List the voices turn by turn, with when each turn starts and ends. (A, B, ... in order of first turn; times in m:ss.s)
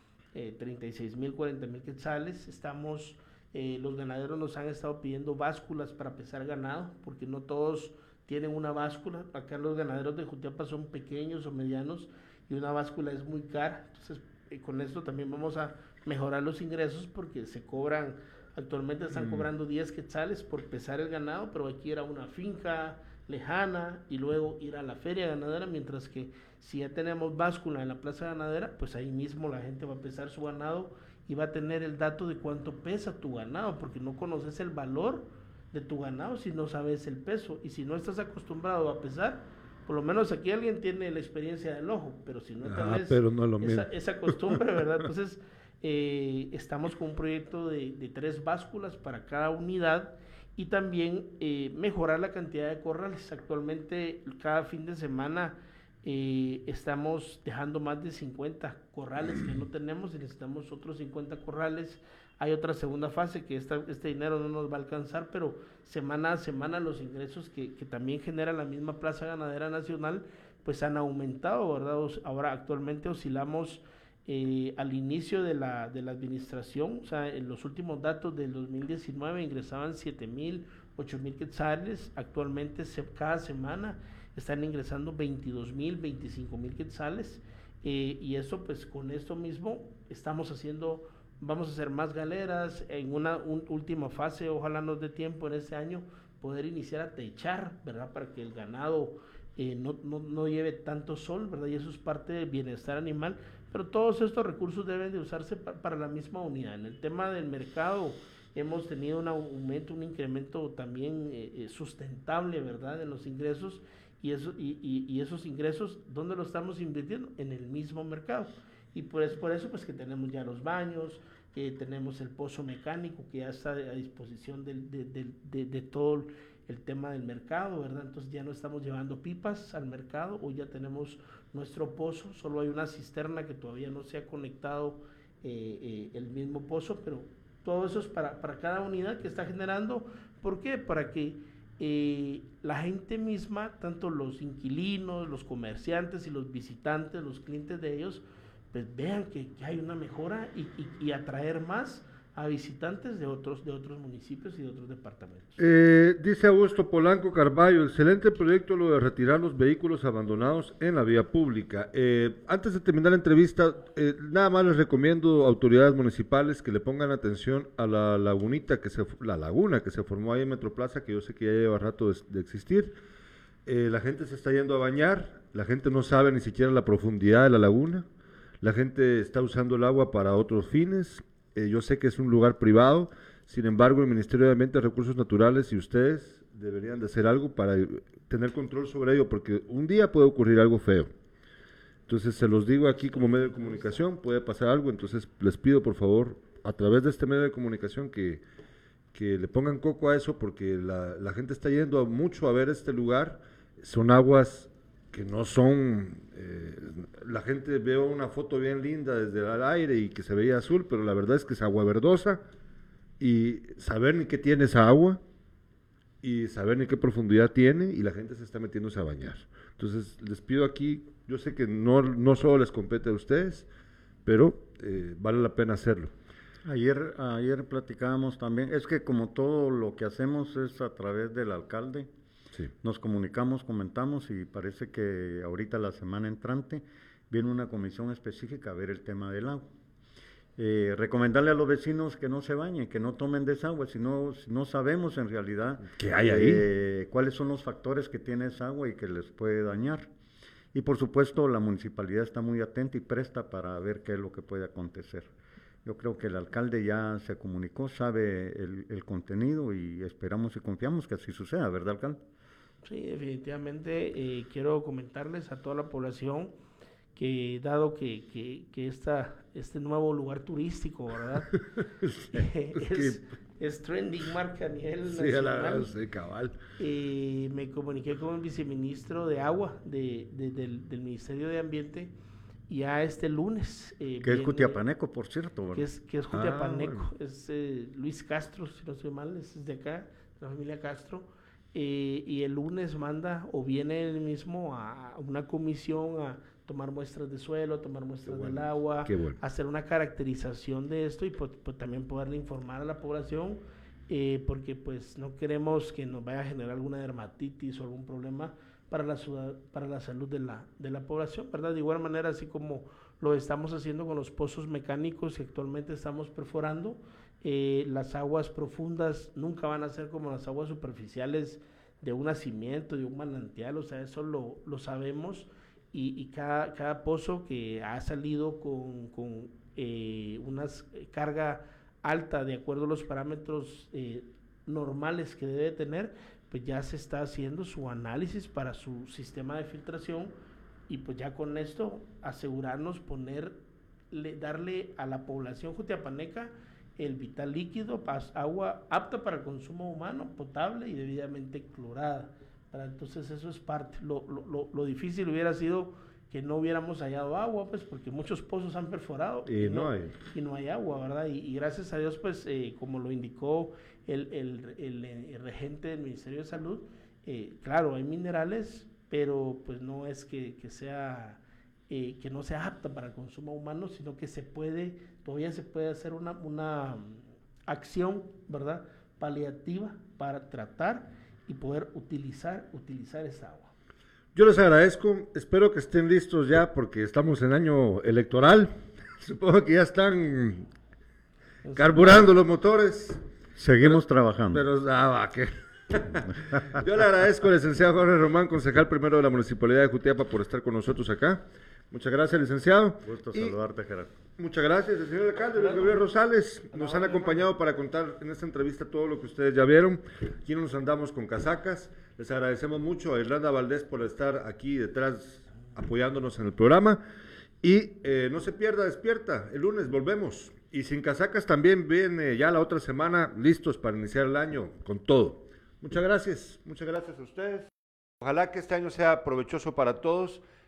0:00.3-2:35.6 A
0:19.1-0:19.5 B
0:42.6-0:44.6 B
2:35.6-2:53.0 B
2:53.7-2:58.1 B
2:58.6-3:11.1 B
3:12.1-3:18.4 B
3:13.0-3:14.0 A
3:19.1-3:32.4 B
3:33.2-3:35.2 B
3:36.2-3:43.7 B
3:44.3-3:46.1 B
3:46.6-3:52.1 C
3:52.8-3:59.7 C
4:00.6-4:10.1 C
4:05.9-4:06.7 B
4:10.7-4:15.3 C
4:15.8-4:22.2 C
4:22.8-4:26.6 A
4:27.2-4:31.5 A
4:31.5-4:33.2 B
4:32.3-4:35.9 A
4:35.0-4:36.6 B
4:36.8-4:42.1 A
4:42.7-4:44.8 A
4:44.2-4:45.9 C
4:45.7-5:40.3 A
4:46.3-4:47.1 B
4:58.2-4:59.4 B
5:40.9-5:43.6 A
5:44.1-6:23.7 A
5:59.5-6:00.2 B
6:24.4-6:30.7 B
6:31.6-6:32.2 A
6:31.8-6:33.2 B
6:33.6-6:34.6 C
6:33.8-6:43.6 B
6:43.0-6:44.1 C
6:44.4-6:57.0 B
6:45.6-6:46.0 A
6:46.7-6:47.4 A
6:57.6-7:07.7 B
7:08.2-7:10.4 B